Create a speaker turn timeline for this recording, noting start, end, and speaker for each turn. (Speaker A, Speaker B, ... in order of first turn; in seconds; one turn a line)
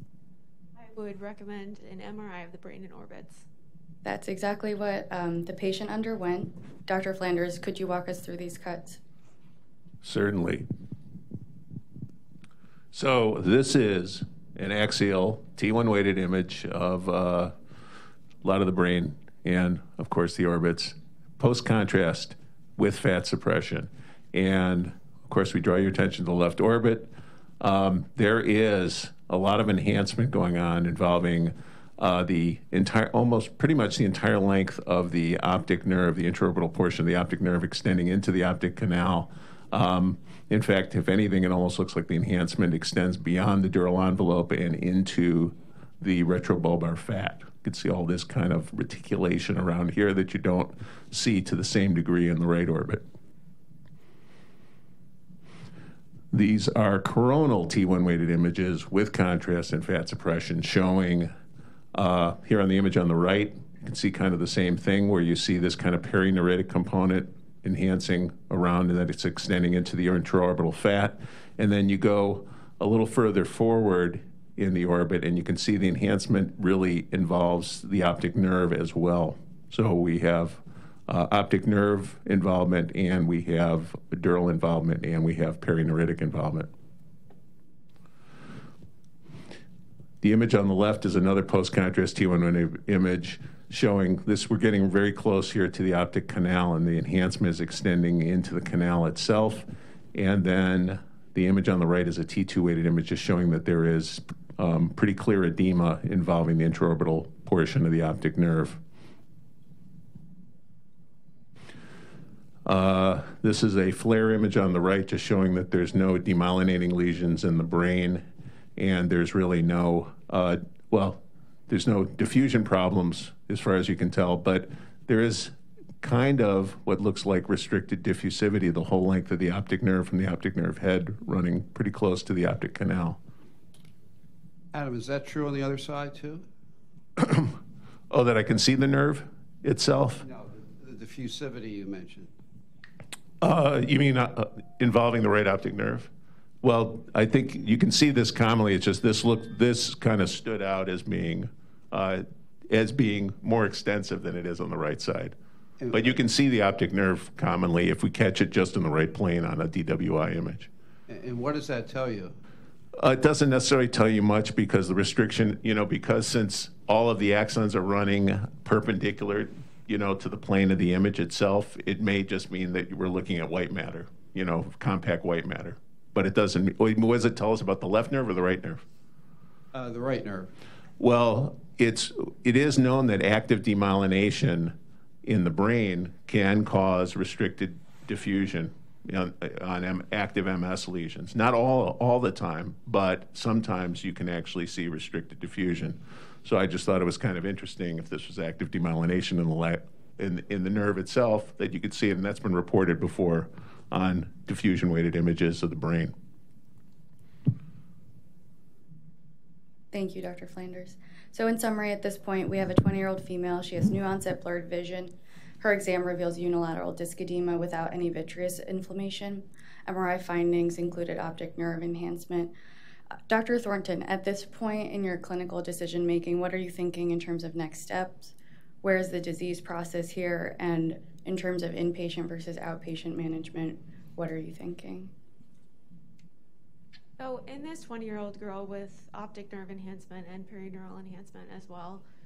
Speaker A: 0.7-3.5
Speaker B: 4.0-9.0
Speaker C: 10.0-10.7
Speaker C: 12.9-17.5
Speaker C: 18.4-53.0
Speaker C: 56.3-61.3
Speaker C: 61.9-86.7
Speaker C: 90.2-108.8
Speaker C: 112.6-118.2
Speaker C: 118.8-133.2
Speaker D: 134.7-136.4
Speaker C: 137.2-137.6
Speaker C: 138.1-140.2
Speaker D: 140.2-142.3
Speaker C: 143.4-146.1
Speaker C: 146.6-155.3
Speaker D: 155.8-156.2
Speaker C: 155.9-160.7
Speaker D: 161.1-162.4
Speaker C: 162.9-178.8
Speaker D: 179.7-180.5
Speaker C: 181.0-206.1
Speaker B: 209.9-222.5
Speaker B: 223.3-235.1
Speaker A: 237.2-242.0